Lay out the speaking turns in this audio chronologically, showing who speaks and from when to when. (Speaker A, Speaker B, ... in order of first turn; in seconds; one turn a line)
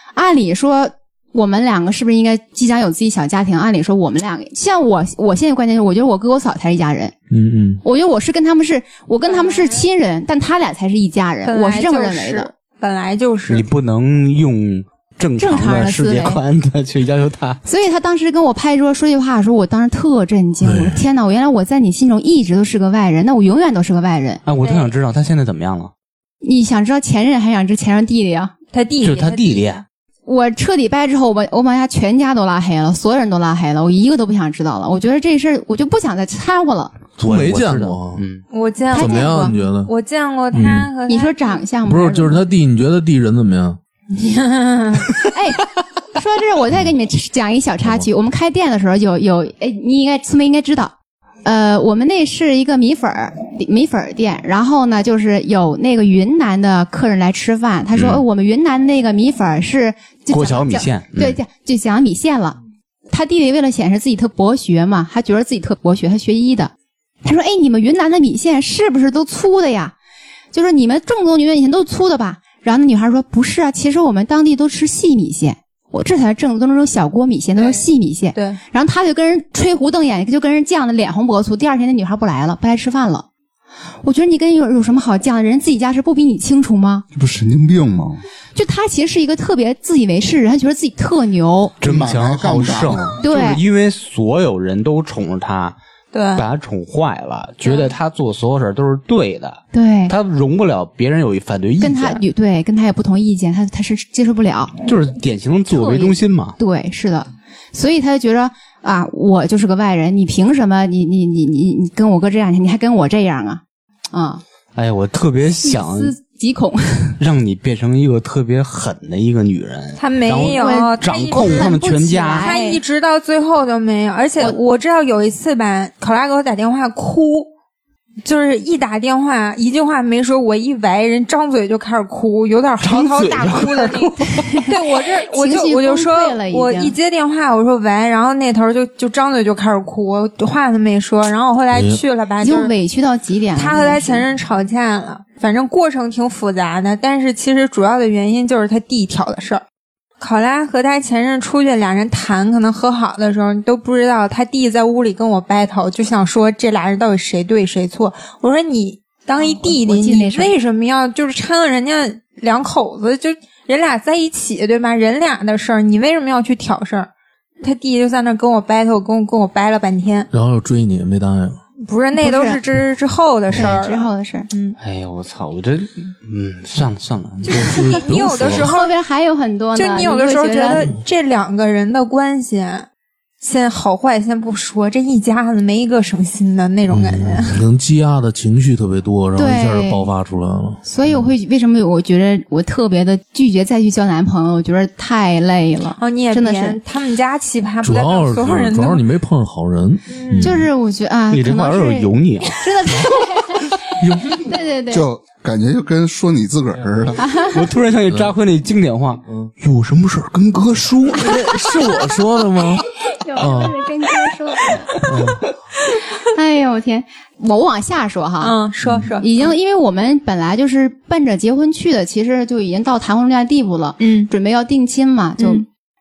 Speaker A: 0.1-7.1
Speaker B: 7.3-7.8
Speaker A: 7.8-12.5
Speaker C: 9.3-9.8
Speaker C: 11.4-13.6
Speaker D: 13.5-17.6
Speaker A: 15.4-16.4
Speaker A: 17.6-24.4
Speaker B: 20.6-21.0
Speaker D: 24.4-25.9
Speaker C: 24.6-24.9
Speaker A: 26.4-28.5
Speaker C: 28.7-29.8
Speaker D: 29.0-29.8
Speaker A: 30.3-37.0
Speaker B: 37.2-38.2
Speaker D: 37.2-38.5
Speaker C: 38.5-41.6
Speaker A: 38.9-39.6
Speaker B: 38.9-39.9
Speaker B: 40.5-40.9
Speaker A: 41.1-42.4
Speaker B: 41.8-43.8
Speaker C: 44.2-45.2
Speaker A: 44.9-50.9
Speaker A: 51.5-62.6
Speaker D: 57.9-58.2
Speaker D: 60.3-61.4
Speaker A: 63.1-66.7
Speaker A: 67.2-69.9
Speaker A: 70.5-83.3
Speaker C: 77.5-78.6
Speaker A: 84.0-87.0
Speaker E: 87.1-88.2
Speaker A: 88.5-91.8
Speaker D: 91.8-95.8
Speaker E: 91.8-93.2
Speaker A: 93.2-93.6
Speaker C: 96.1-96.5
Speaker D: 96.3-102.2
Speaker C: 97.6-97.9
Speaker A: 99.7-100.1
Speaker A: 101.8-104.7
Speaker D: 104.8-106.6
Speaker A: 105.7-113.6
Speaker A: 114.1-114.4
Speaker D: 114.8-116.1
Speaker A: 115.6-117.2
Speaker D: 117.2-122.5
Speaker C: 120.0-121.7
Speaker A: 120.5-122.8
Speaker C: 122.4-127.5
Speaker C: 128.2-142.7
Speaker D: 132.8-134.6
Speaker A: 134.2-136.9
Speaker B: 141.7-142.0
Speaker A: 142.4-144.3
Speaker C: 143.6-149.6
Speaker C: 150.2-167.1
Speaker A: 159.4-160.5
Speaker C: 167.6-170.3
Speaker B: 170.3-171.6
Speaker C: 171.8-174.8
Speaker A: 172.1-172.6
Speaker A: 173.5-174.5
Speaker D: 174.8-177.8
Speaker C: 177.4-179.0
Speaker B: 177.5-178.7
Speaker A: 178.5-180.9
Speaker C: 179.7-182.9
Speaker C: 183.4-187.6
Speaker B: 186.9-191.3
Speaker A: 189.4-190.1
Speaker A: 190.8-196.8
Speaker C: 196.0-199.0
Speaker B: 197.8-200.7
Speaker C: 200.1-200.6
Speaker A: 200.4-203.8
Speaker D: 201.3-202.6
Speaker B: 204.0-204.5
Speaker A: 204.4-205.1
Speaker E: 204.9-207.2
Speaker A: 207.2-207.6
Speaker D: 207.5-211.3
Speaker B: 211.2-212.8
Speaker A: 213.0-214.8
Speaker B: 213.4-213.8
Speaker B: 215.0-215.4
Speaker D: 215.1-215.4
Speaker A: 216.2-218.6
Speaker C: 218.4-219.3
Speaker A: 219.2-225.6
Speaker C: 224.0-224.3
Speaker C: 225.4-225.6